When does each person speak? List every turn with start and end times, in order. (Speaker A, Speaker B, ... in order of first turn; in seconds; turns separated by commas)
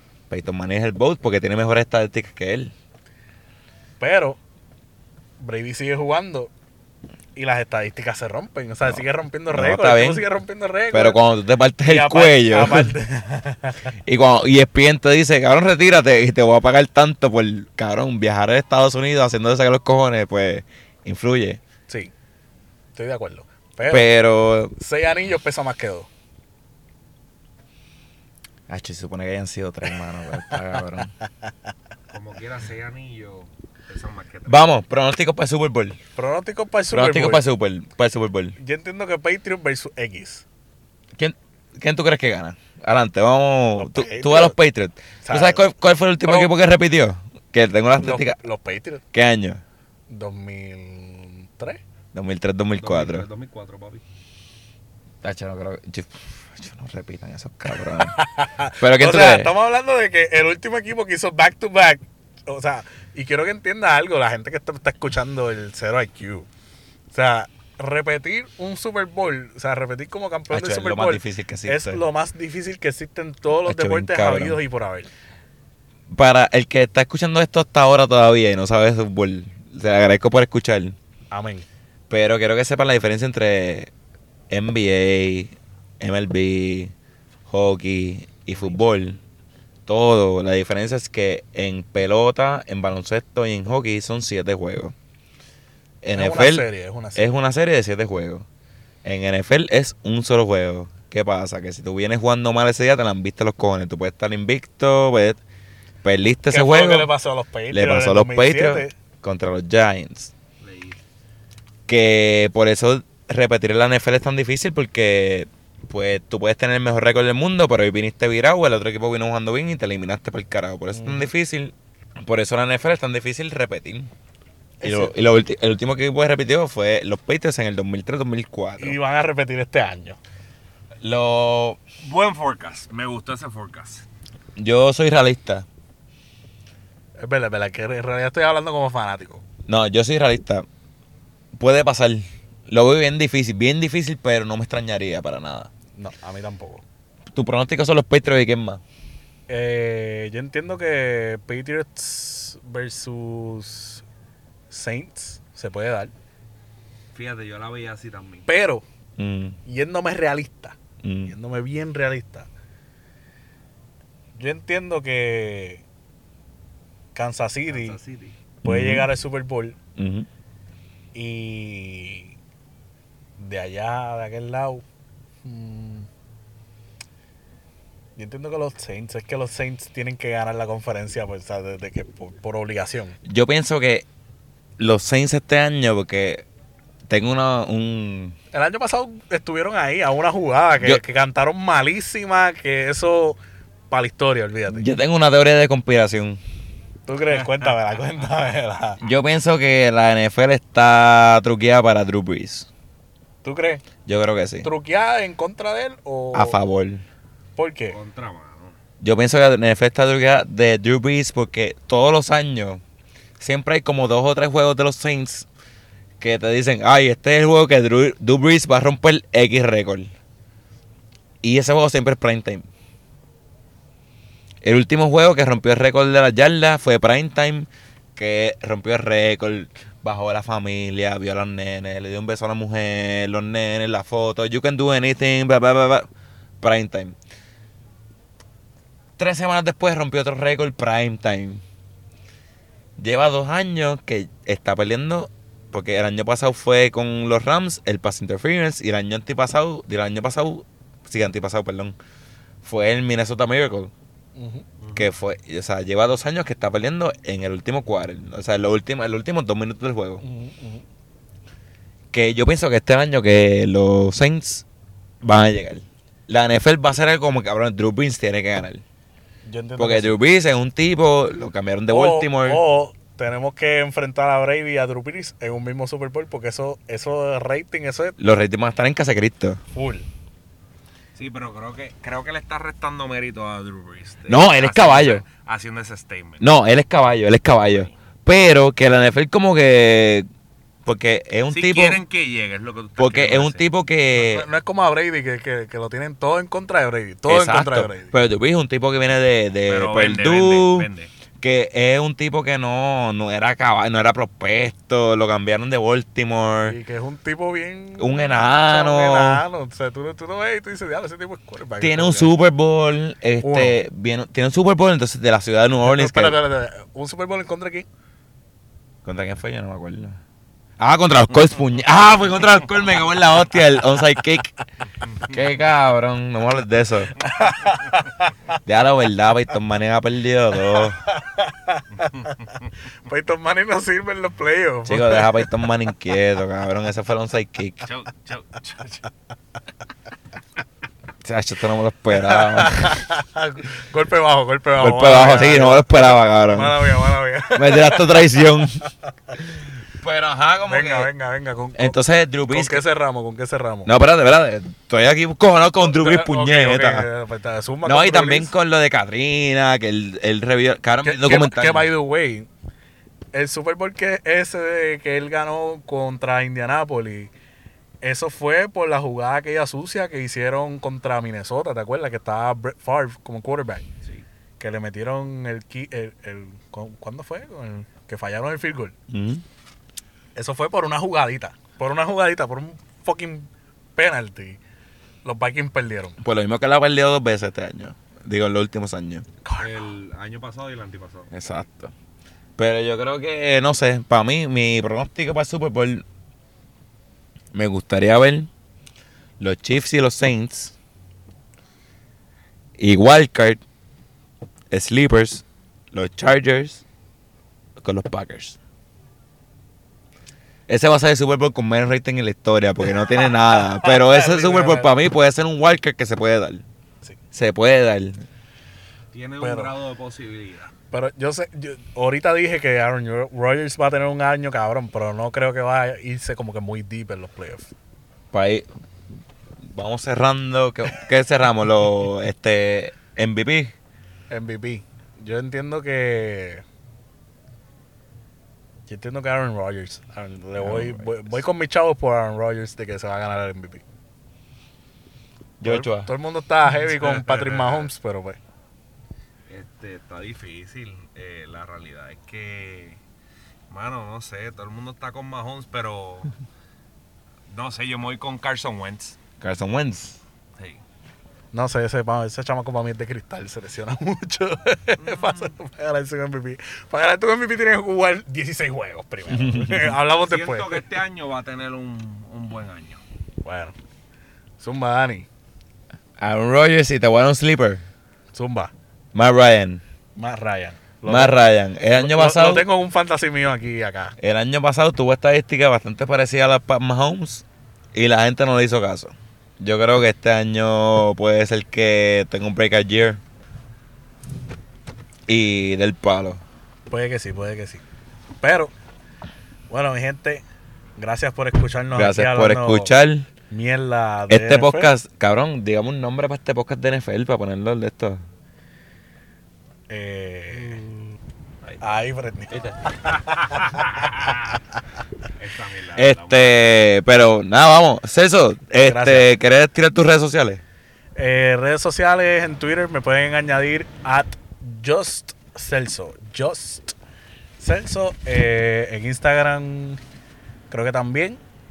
Speaker A: 0.3-2.7, Speaker B: 4.0-4.4, Speaker B: 5.4-6.5, Speaker B: 7.3-11.2, Speaker A: 8.8-10.3, Speaker A: 10.9-13.0, Speaker B: 11.8-13.9, Speaker A: 14.1-21.6, Speaker B: 22.9-24.2, Speaker A: 23.9-24.8, Speaker B: 24.8-26.1, Speaker A: 28.7-31.1, Speaker C: 32.1-34.6, Speaker A: 34.5-36.0, Speaker B: 36.2-37.5, Speaker A: 36.9-38.6, Speaker B: 38.6-40.4, Speaker A: 41.2-48.4, Speaker B: 43.8-44.6, Speaker B: 45.2-45.7, Speaker B: 46.2-46.5, Speaker B: 48.0-49.0, Speaker A: 49.1-49.6, Speaker B: 50.1-51.8, Speaker A: 52.1-53.3, Speaker C: 52.8-54.0, Speaker A: 55.2-58.2, Speaker B: 57.9-66.5, Speaker A: 58.8-59.5, Speaker B: 67.1-75.1, Speaker A: 70.5-72.0, Speaker A: 73.7-74.6, Speaker A: 76.1-81.0, Speaker B: 81.3-81.7, Speaker A: 82.1-83.9, Speaker A: 84.5-86.9, Speaker A: 87.5-89.2, Speaker A: 89.9-94.9, Speaker A: 96.0-98.5, Speaker B: 96.1-97.3, Speaker A: 99.0-105.4, Speaker A: 106.0-107.1, Speaker B: 106.5-108.9, Speaker A: 107.7-110.3, Speaker C: 110.6-111.0, Speaker A: 111.9-124.1, Speaker B: 120.9-121.3, Speaker B: 124.8-125.2, Speaker A: 124.8-129.0, Speaker B: 128.8-130.2, Speaker A: 131.0-131.8, Speaker C: 132.0-134.1, Speaker A: 134.6-135.7, Speaker B: 137.2-139.4, Speaker A: 139.7-140.7, Speaker A: 141.6-145.7, Speaker B: 146.0-146.8, Speaker A: 147.3-148.8, Speaker B: 149.5-154.0, Speaker B: 154.7-156.1, Speaker C: 157.1-158.5, Speaker B: 158.5-158.8, Speaker A: 159.2-159.6, Speaker B: 159.7-162.5, Speaker A: 161.0-161.3, Speaker B: 164.4-165.8, Speaker B: 167.2-168.0, Speaker C: 167.7-168.4, Speaker A: 168.6-169.1, Speaker B: 168.6-169.8, Speaker A: 170.0-170.3, Speaker B: 171.1-172.3, Speaker B: 173.4-174.8, Speaker B: 175.4-176.1, Speaker B: 178.2-183.2, Speaker A: 183.3-184.1, Speaker A: 184.8-186.4, Speaker A: 187.1-188.4, Speaker B: 188.5-193.4, Speaker B: 193.9-194.9, Speaker A: 194.7-196.4, Speaker B: 197.1-199.0, Speaker A: 199.0-202.7, Speaker B: 203.4-203.8, Speaker A: 204.1-204.7, Speaker B: 204.6-206.6, Speaker A: 206.3-207.1, Speaker B: 207.6-208.0, Speaker C: 207.9-208.8, Speaker A: 209.0-212.8, Speaker A: 213.4-215.5, Speaker A: 216.2-220.1, Speaker A: 221.4-222.7, Speaker A: 224.6-236.1, Speaker A: 236.6-237.2, Speaker A: 239.2-241.6, Speaker A: 243.0-252.0, Speaker A: 252.6-253.9, Speaker B: 254.4-254.7, Speaker C: 254.8-255.1, Speaker A: 254.9-260.2, Speaker B: 260.2-260.8, Speaker A: 262.1-264.6, Speaker A: 265.2-268.8, Speaker B: 269.5-270.2, Speaker A: 269.8-272.6, Speaker B: 271.9-278.2, Speaker A: 278.2-279.6, Speaker B: 279.7-280.1, Speaker C: 281.2-286.4, Speaker A: 284.3-285.2, Speaker A: 286.4-290.3, Speaker A: 290.9-292.0, Speaker C: 291.5-293.7, Speaker A: 293.0-294.5, Speaker B: 294.1-298.1, Speaker A: 297.3-300.9, Speaker C: 299.7-301.1, Speaker A: 301.4-306.8, Speaker B: 306.6-312.3, Speaker A: 308.0-309.4, Speaker A: 311.8-316.4, Speaker B: 313.4-313.8, Speaker B: 315.8-317.9, Speaker A: 319.0-320.2, Speaker A: 320.8-324.5, Speaker A: 325.2-327.2, Speaker B: 327.2-328.1, Speaker A: 328.6-331.0, Speaker B: 330.6-332.2, Speaker B: 333.1-335.5, Speaker A: 334.9-337.8, Speaker C: 337.9-339.0, Speaker A: 341.2-343.0, Speaker B: 342.1-348.7, Speaker A: 344.8-346.8, Speaker A: 347.6-348.9, Speaker A: 350.0-351.1, Speaker B: 350.7-353.9, Speaker A: 351.8-352.8, Speaker A: 353.9-357.1, Speaker B: 355.8-358.5, Speaker A: 357.8-361.9, Speaker B: 361.0-362.5, Speaker B: 363.3-367.3, Speaker B: 368.0-373.9, Speaker B: 374.6-378.9, Speaker A: 379.1-379.4, Speaker B: 380.4-384.6, Speaker B: 385.2-386.2, Speaker A: 386.2-389.2, Speaker B: 389.4-389.9, Speaker C: 389.6-391.3, Speaker A: 391.3-391.9, Speaker A: 392.6-396.0, Speaker A: 397.5-398.5, Speaker A: 399.4-400.8, Speaker A: 402.8-403.6, Speaker A: 404.7-406.8, Speaker A: 407.8-408.6, Speaker A: 410.7-416.6, Speaker B: 413.2-414.9, Speaker A: 417.3-418.2, Speaker C: 419.1-420.7, Speaker B: 419.4-419.7, Speaker B: 420.9-427.7, Speaker A: 428.3-428.7, Speaker A: 429.6-433.7, Speaker B: 434.3-436.6, Speaker B: 438.9-443.8, Speaker A: 440.6-441.4, Speaker A: 445.6-446.1, Speaker B: 445.6-448.4, Speaker C: 446.9-447.9, Speaker C: 449.5-453.0, Speaker C: 453.7-456.3, Speaker C: 457.5-459.2, Speaker A: 459.4-460.2, Speaker C: 460.6-460.8, Speaker B: 461.5-470.8, Speaker C: 465.0-465.5, Speaker A: 469.3-469.9, Speaker C: 470.1-473.0, Speaker B: 473.4-473.7, Speaker B: 474.6-475.3, Speaker A: 476.2-477.9, Speaker B: 478.3-478.7, Speaker A: 479.1-479.8, Speaker B: 480.2-481.4, Speaker A: 481.1-482.7, Speaker B: 481.9-484.1, Speaker A: 484.2-493.2, Speaker A: 495.3-496.4, Speaker B: 496.9-497.8, Speaker B: 498.4-498.7, Speaker B: 499.7-500.4, Speaker B: 501.0-502.9, Speaker A: 501.9-503.3, Speaker B: 503.5-504.9, Speaker A: 504.3-508.2, Speaker B: 509.9-510.8, Speaker B: 511.8-513.8, Speaker C: 513.1-514.5, Speaker C: 515.4-516.8, Speaker A: 516.0-520.6, Speaker B: 518.8-519.3, Speaker B: 521.2-527.0, Speaker B: 527.6-530.0, Speaker B: 530.7-531.4